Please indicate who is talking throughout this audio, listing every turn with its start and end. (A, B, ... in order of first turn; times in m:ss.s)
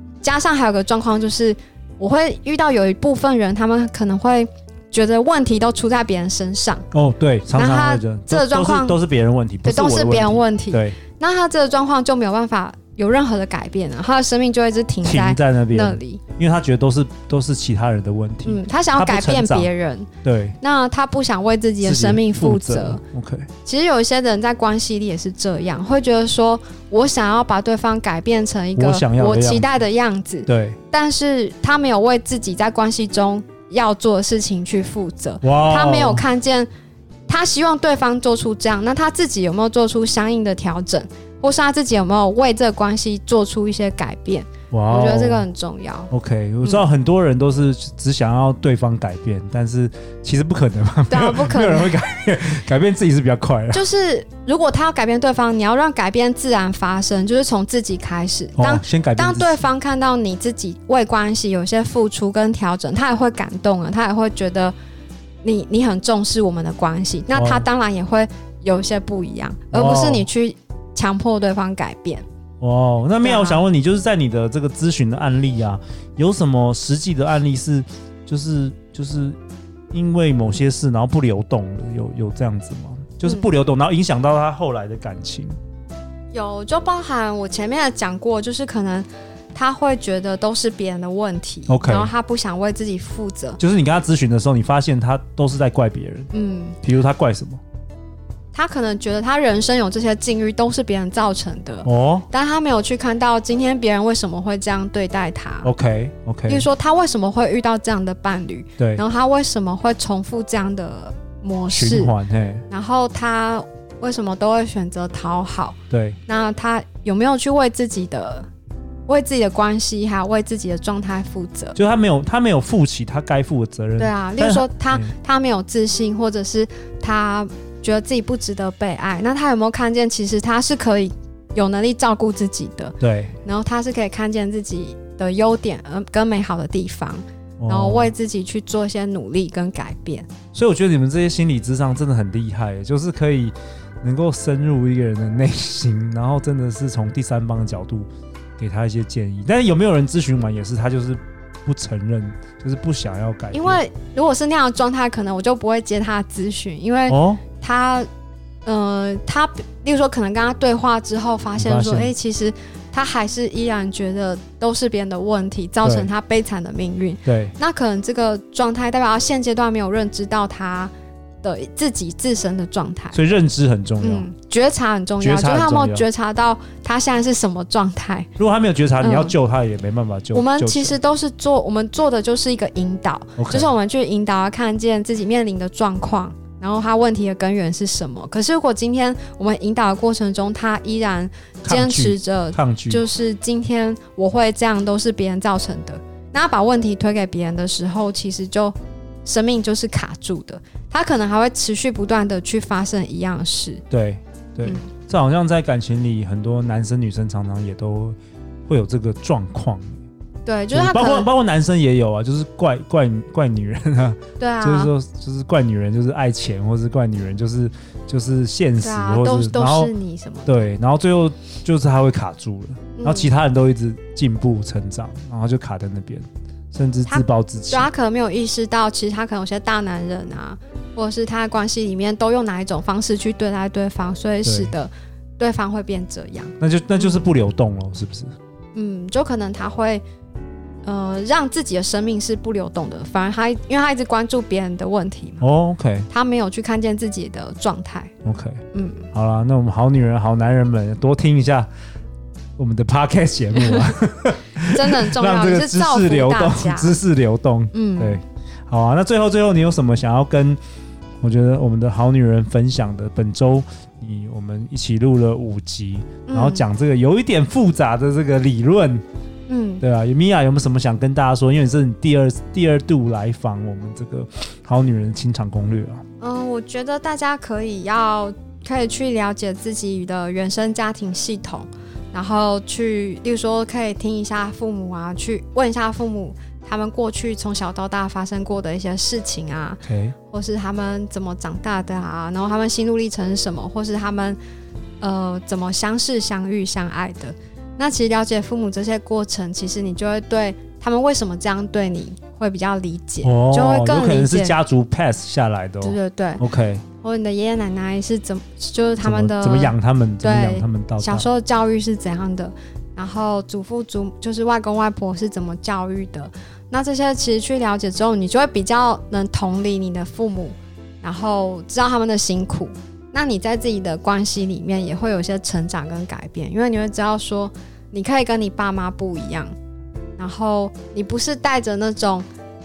0:00.2-0:06.9 A
0:06.9-0:11.0 B
0:07.5-0:09.0 A
0:09.6-0:16.2 A
0:15.0-0:19.7 B
0:18.4-0:20.1 A
0:20.2-0:20.6 B
0:20.6-0:23.0 A
0:21.8-0:23.5 B
0:23.6-0:36.7 A
0:28.8-0:29.7 B
0:30.5-0:30.8 B
0:35.4-0:36.2 B
0:37.3-0:46.1 A
0:44.7-0:45.5 B
0:46.1-0:53.8 B
0:51.1-0:51.9 A
0:53.7-1:04.7 A
0:58.6-0:59.7 B
1:05.4-1:12.2 A
1:07.3-1:07.7 B
1:09.7-1:10.3 B
1:12.6-1:19.4 B
1:13.2-1:13.6 A
1:19.9-1:25.6 B
1:26.3-1:33.6 A
1:31.7-1:32.1 B
1:33.6-1:36.3 B
1:36.3-1:36.8 A
1:36.8-1:37.6 B
1:38.5-1:45.7 A
1:41.8-1:42.3 B
1:45.6-1:46.7 B
1:46.5-1:52.1 A
1:48.8-1:49.0 B
1:51.7-1:52.6 B
1:52.7-1:55.8 A
1:55.9-1:56.2 B
1:56.3-1:58.5 A
1:59.1-2:01.8 A
2:01.8-2:05.1 B
2:04.0-2:20.3 A
2:13.0-2:13.4 B
2:17.6-2:18.1 B
2:20.5-2:33.8 B
2:33.5-2:38.1 A
2:37.1-2:37.4 B
2:38.6-2:50.9 A
2:41.6-2:42.1 B
2:45.8-2:46.1 B
2:47.2-2:47.5 B
2:51.4-2:53.2 A
2:53.1-2:54.3 B
2:54.0-2:58.3 A
2:55.2-2:56.1 B
2:58.4-3:01.0 B
2:59.0-2:59.4 A
3:00.3-3:23.8 A
3:03.4-3:03.7 B
3:11.6-3:13.0 B
3:23.9-3:30.0 B
3:30.5-3:31.3 A
3:30.7-3:39.9 B
3:34.4-3:34.9 A
3:38.8-3:40.6 A
3:40.5-3:47.9 B
3:43.0-3:43.3 A
3:47.1-3:57.2 A
3:54.4-3:54.7 B
3:56.6-3:58.3 B
3:58.7-4:00.0 A
4:00.8-4:05.4 A
4:05.4-4:06.1 B
4:06.1-4:08.1 A
4:08.2-4:08.6 B
4:08.7-4:09.1 A
4:09.1-4:11.7 B
4:12.6-4:20.6 B
4:13.6-4:13.9 A
4:14.7-4:17.0 A
4:17.7-4:18.2 A
4:21.2-4:29.0 B
4:26.3-4:26.7 A
4:29.5-4:29.8 A
4:29.8-4:36.0 B
4:36.2-4:54.4 A
4:49.8-4:50.2 B
4:55.0-5:04.6 A
5:03.2-5:06.8 B
5:05.8-5:06.4 A
5:07.0-5:29.6 A
5:09.0-5:11.3 B
5:30.2-5:32.3 A